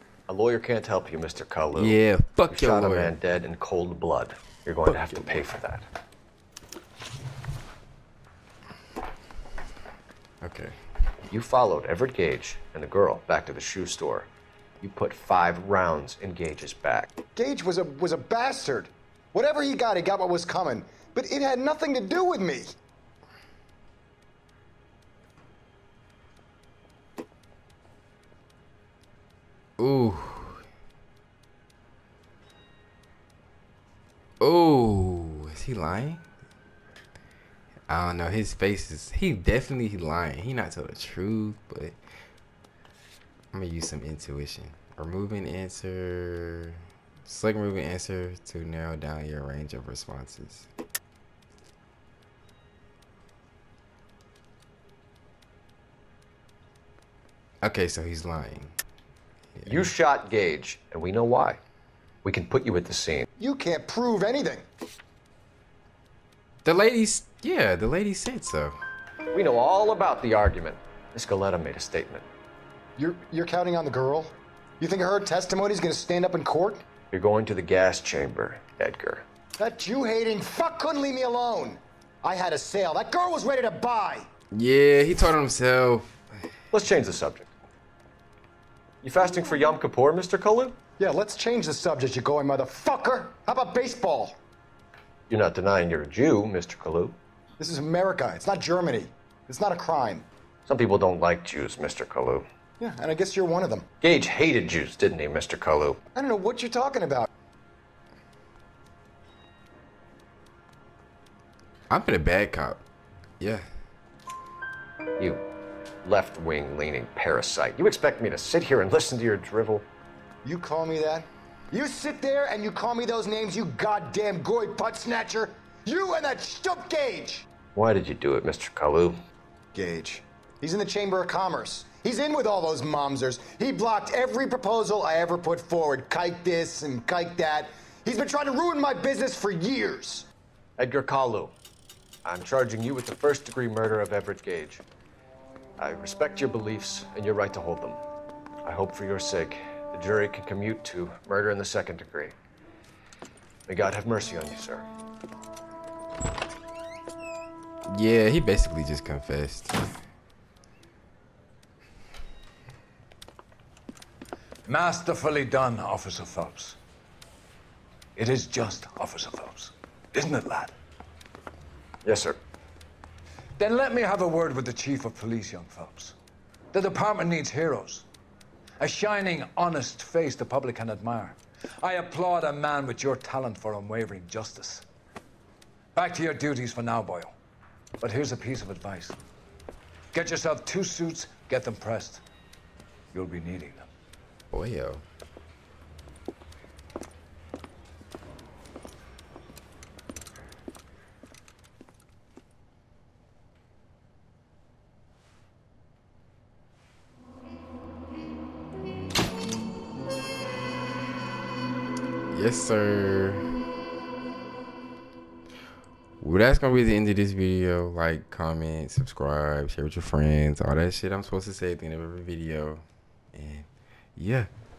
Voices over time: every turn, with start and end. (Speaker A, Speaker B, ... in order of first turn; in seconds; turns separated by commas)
Speaker A: 0.3-2.0, Speaker B: 1.8-3.1, Speaker A: 2.5-5.8, Speaker B: 4.9-5.4, Speaker B: 10.4-10.8, Speaker A: 11.3-14.3, Speaker A: 14.8-17.1, Speaker C: 17.4-22.8, Speaker B: 29.8-30.6, Speaker B: 34.4-36.2, Speaker B: 37.9-42.0, Speaker B: 43.5-50.7, Speaker B: 57.6-58.7, Speaker B: 59.6-59.9, Speaker A: 59.7-61.6, Speaker A: 62.2-63.2, Speaker C: 63.4-64.7, Speaker B: 66.6-68.8, Speaker A: 69.3-72.3, Speaker C: 73.0-76.8, Speaker A: 77.1-79.2, Speaker C: 79.6-84.3, Speaker B: 84.5-86.2, Speaker A: 86.7-87.5, Speaker A: 89.0-90.8, Speaker C: 91.0-94.4, Speaker A: 95.3-97.2, Speaker C: 97.6-100.3, Speaker A: 100.7-102.5, Speaker C: 102.8-103.9, Speaker A: 104.0-106.0, Speaker C: 106.1-107.3, Speaker B: 111.9-112.8, Speaker B: 113.4-113.7, Speaker A: 115.2-115.4, Speaker A: 116.0-119.9, Speaker C: 120.4-127.5, Speaker A: 127.8-129.2, Speaker C: 129.7-140.3, Speaker A: 140.8-141.5, Speaker A: 142.2-144.8, Speaker A: 145.8-148.0, Speaker A: 148.7-152.3, Speaker A: 153.7-154.9, Speaker B: 157.9-159.8, Speaker D: 164.7-166.8, Speaker D: 168.2-170.7, Speaker A: 172.0-172.4, Speaker D: 173.6-176.2, Speaker D: 176.7-178.1, Speaker D: 178.8-184.8, Speaker D: 185.9-187.4, Speaker D: 188.0-189.2, Speaker D: 190.1-192.2, Speaker D: 193.1-193.9, Speaker B: 194.5-195.0, Speaker B: 212.3-213.5, Speaker B: 216.2-224.5